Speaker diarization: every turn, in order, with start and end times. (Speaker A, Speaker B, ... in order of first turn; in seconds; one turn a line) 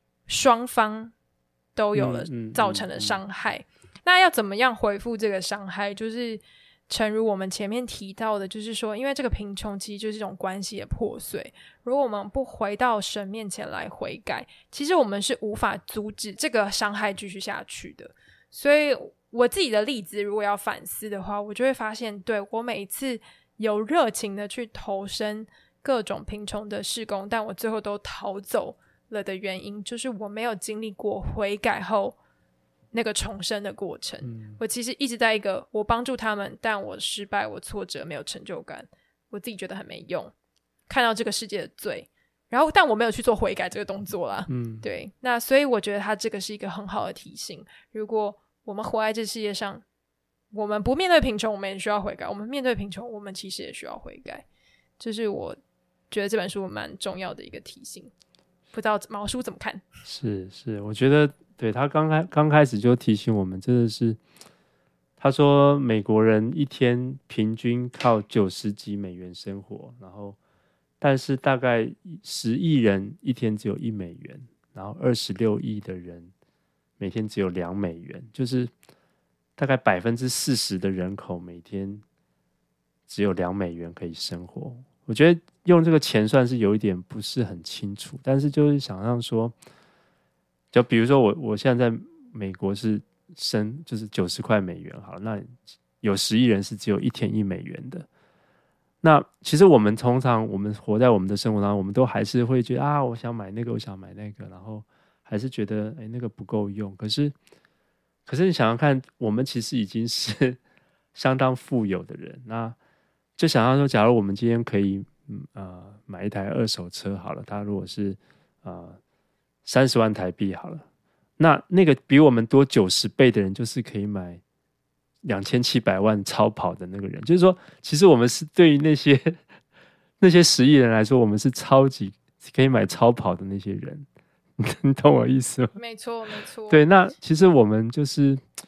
Speaker A: 0.3-1.1
Speaker A: 1.8-32.2
Speaker B: 1.9-3.2
Speaker A: 32.9-40.3
Speaker B: 34.2-34.6
Speaker A: 40.9-49.8
Speaker B: 44.5-44.8
Speaker A: 50.5-54.4
Speaker A: 55.0-55.6
Speaker A: 56.1-58.1
Speaker A: 58.7-59.9
Speaker B: 60.0-64.2
Speaker B: 65.2-70.4
Speaker B: 71.0-76.3
Speaker B: 77.0-78.7
Speaker B: 79.6-82.0
Speaker B: 83.1-89.5
Speaker B: 90.7-98.0
Speaker B: 99.0-107.3
Speaker B: 108.3-110.6
Speaker B: 111.1-112.8
Speaker B: 113.4-119.0
Speaker B: 119.6-120.8
Speaker B: 121.4-124.4
Speaker B: 125.2-129.4
Speaker B: 130.2-134.1
Speaker B: 134.6-135.8
Speaker A: 135.8-136.8
Speaker B: 136.7-138.4